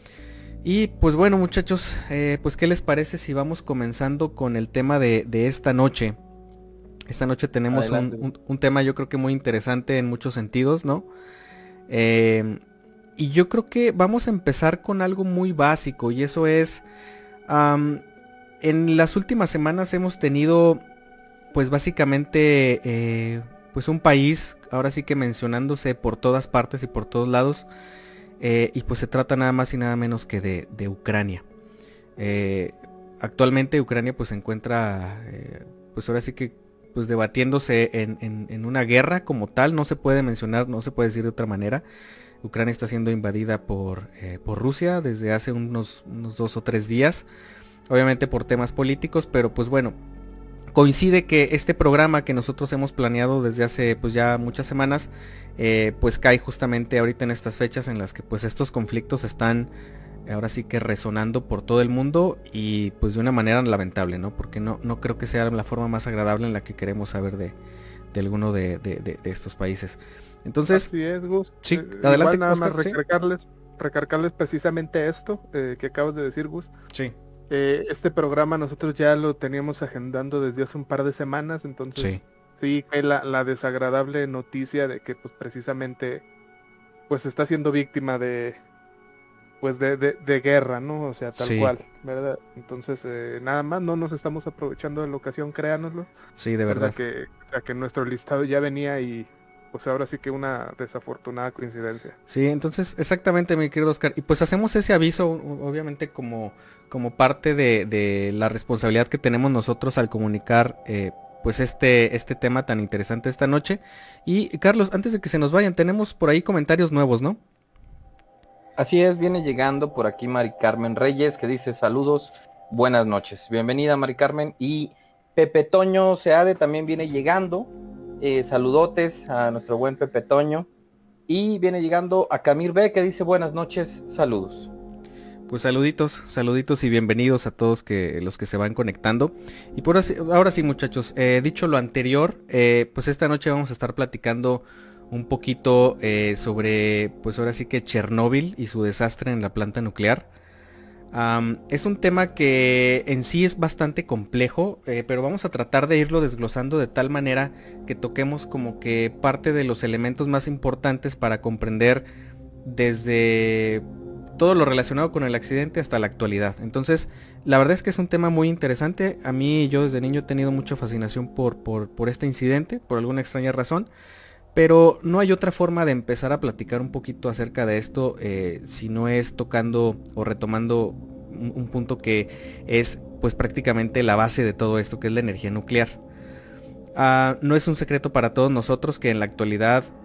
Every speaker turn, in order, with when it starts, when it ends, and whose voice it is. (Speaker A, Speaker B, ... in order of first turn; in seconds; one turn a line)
Speaker A: 0.6-6.2
Speaker A: 7.1-11.1
Speaker B: 7.7-8.2
Speaker A: 11.9-12.6
Speaker A: 13.2-16.8
Speaker A: 17.5-18.0
Speaker A: 18.6-20.8
Speaker A: 21.5-27.7
Speaker A: 28.4-31.4
Speaker A: 32.2-41.8
Speaker A: 42.4-47.2
Speaker A: 47.9-50.0
Speaker A: 50.7-59.7
Speaker A: 60.2-67.6
Speaker A: 68.1-70.9
Speaker C: 70.7-76.7
Speaker A: 71.6-73.0
Speaker C: 77.5-86.2
Speaker C: 87.1-88.6
Speaker C: 89.6-96.1
Speaker A: 91.3-91.7
Speaker A: 96.4-97.0
Speaker C: 96.7-102.2
Speaker A: 102.3-117.4
Speaker B: 118.8-130.7
Speaker B: 131.3-134.7
Speaker A: 135.5-150.3
Speaker A: 151.1-162.1
Speaker A: 162.6-163.8
Speaker A: 164.4-173.9
Speaker A: 174.5-186.0
Speaker A: 186.9-189.9